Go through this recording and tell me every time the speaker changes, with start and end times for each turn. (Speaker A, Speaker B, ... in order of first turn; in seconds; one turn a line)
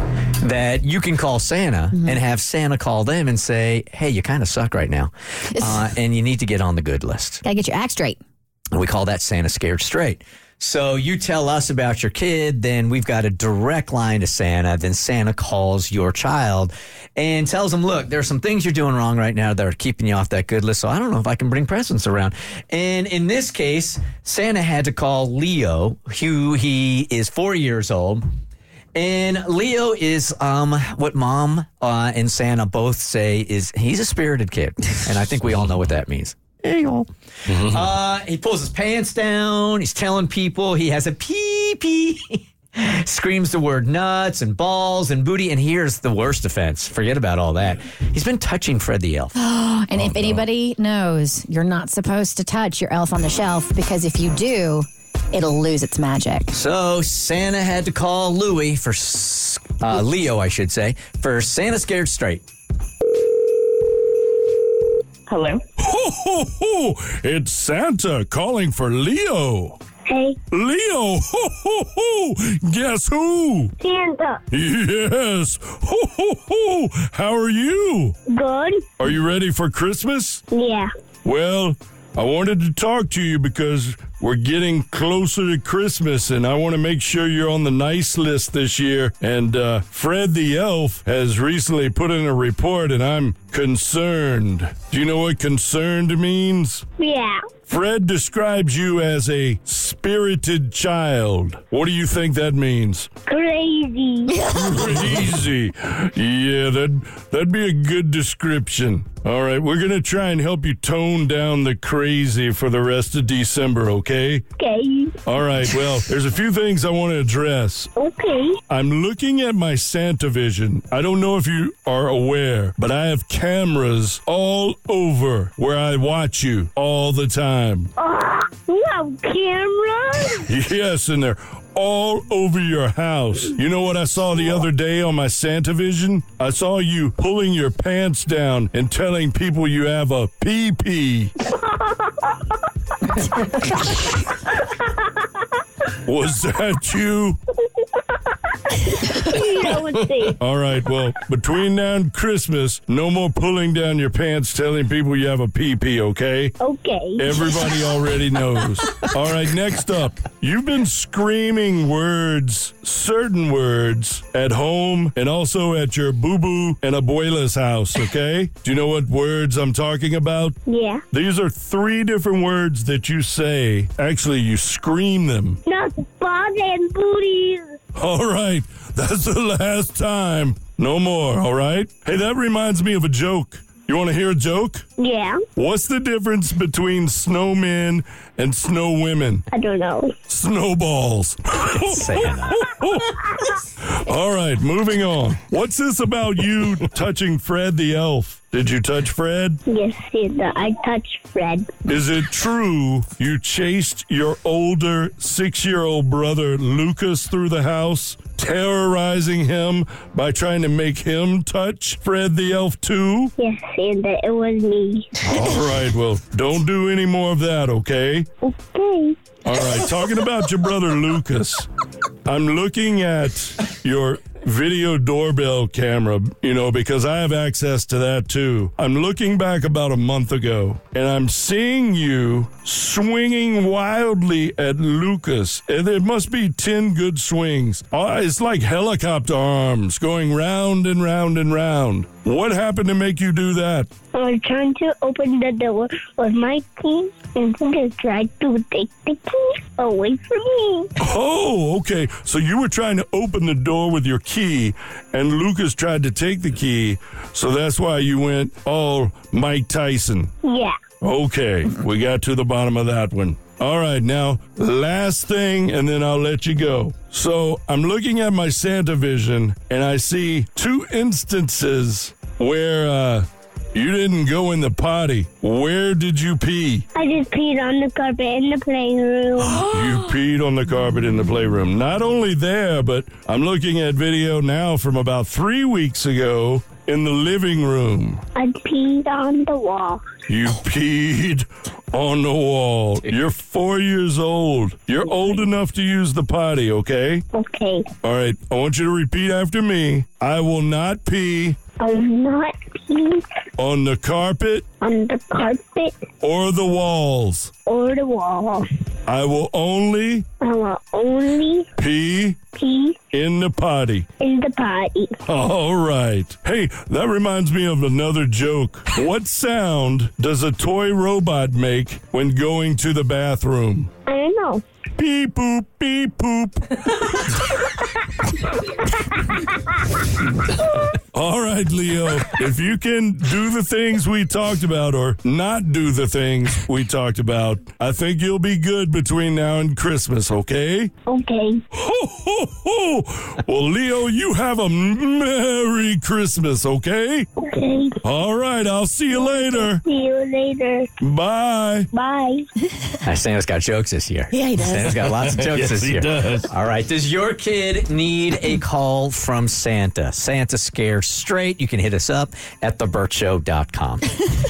Speaker A: 0.4-7.4
Speaker B: 7.4-8.2
Speaker A: 8.7-28.2
Speaker A: 28.9-49.3
Speaker B: 49.4-56.5
Speaker A: 50.0-50.4
Speaker A: 56.5-62.4
Speaker C: 65.8-69.8
Speaker D: 70.0-70.4
Speaker C: 70.5-73.7
Speaker D: 73.8-74.4
Speaker C: 74.5-78.2
Speaker D: 78.3-78.8
Speaker C: 79.0-80.4
Speaker D: 80.5-80.9
Speaker C: 81.2-96.8
Speaker D: 97.0-97.4
Speaker C: 97.7-103.1
Speaker D: 103.3-104.4
Speaker C: 104.5-114.4
Speaker D: 114.6-115.2
Speaker C: 115.2-117.9
Speaker D: 118.0-118.6
Speaker C: 118.7-127.9
Speaker D: 128.0-130.4
Speaker C: 130.4-141.3
Speaker D: 141.8-142.4
Speaker C: 146.0-147.4
Speaker D: 148.7-150.4
Speaker C: 150.4-156.5
Speaker D: 156.6-157.3
Speaker C: 157.2-170.6
Speaker D: 170.7-171.0
Speaker C: 171.1-175.6
Speaker D: 175.7-177.8
Speaker C: 177.9-184.8
Speaker D: 185.0-185.4
Speaker C: 185.6-189.4
Speaker D: 189.5-190.1
Speaker C: 190.3-193.2
Speaker A: 191.7-192.7
Speaker C: 193.8-199.6
Speaker D: 199.7-201.7
Speaker C: 201.8-213.3
Speaker D: 213.4-215.2
Speaker C: 215.2-218.3
Speaker D: 218.4-219.2
Speaker C: 219.4-221.7
Speaker C: 222.2-243.9
Speaker D: 244.1-250.9
Speaker C: 251.0-260.3
Speaker D: 260.4-260.7
Speaker C: 261.0-276.9
Speaker D: 276.9-279.7
Speaker C: 279.5-288.2
Speaker D: 288.3-290.0
Speaker C: 290.3-297.2
Speaker D: 297.3-297.9
Speaker C: 298.0-301.6
Speaker D: 301.8-303.2
Speaker C: 303.6-304.6
Speaker D: 304.8-305.9
Speaker C: 306.2-307.5
Speaker D: 307.7-308.6
Speaker C: 309.1-310.2
Speaker D: 310.4-311.7
Speaker C: 311.8-312.4
Speaker D: 312.5-313.0
Speaker C: 313.1-314.1
Speaker D: 314.2-315.1
Speaker C: 315.2-323.9
Speaker D: 324.1-324.6
Speaker C: 325.0-327.3
Speaker C: 331.1-340.9
Speaker D: 341.1-341.6
Speaker C: 341.7-347.3
Speaker D: 347.4-348.0
Speaker C: 348.0-349.8
Speaker D: 349.1-350.9
Speaker C: 351.0-351.9
Speaker D: 351.9-352.4
Speaker A: 353.0-364.1
Speaker B: 354.3-355.0
Speaker C: 355.2-356.5